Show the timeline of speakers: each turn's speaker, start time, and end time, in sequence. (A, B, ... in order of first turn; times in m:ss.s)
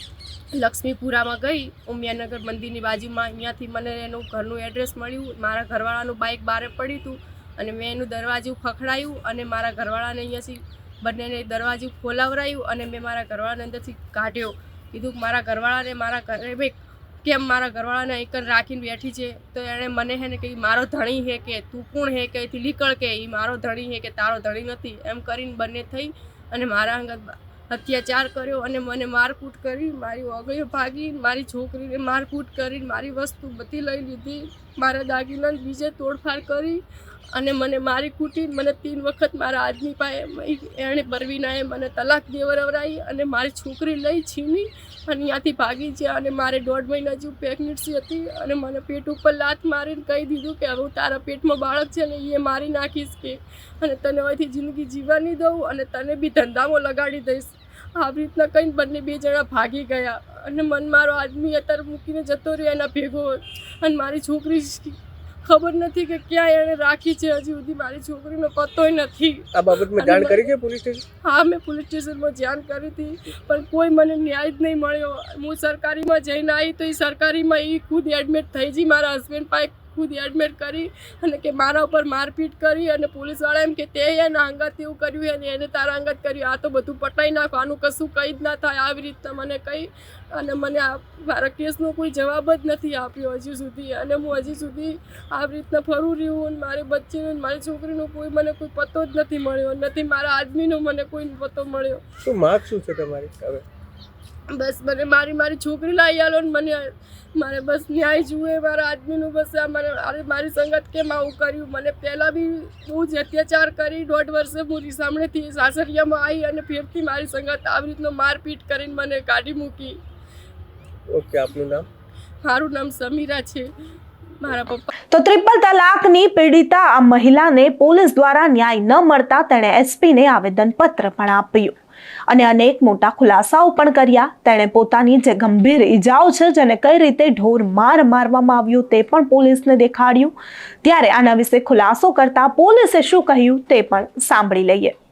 0:00.5-0:36.8 A
0:37.3-1:10.4 A
1:09.5-1:11.0 B
1:11.2-1:42.0 A
1:42.2-1:43.6 B
1:44.5-2:00.0 A
2:01.1-2:01.9 B
2:02.4-2:03.7 A
2:04.4-2:04.9 A
2:05.1-2:11.8 C
2:12.3-2:24.9 C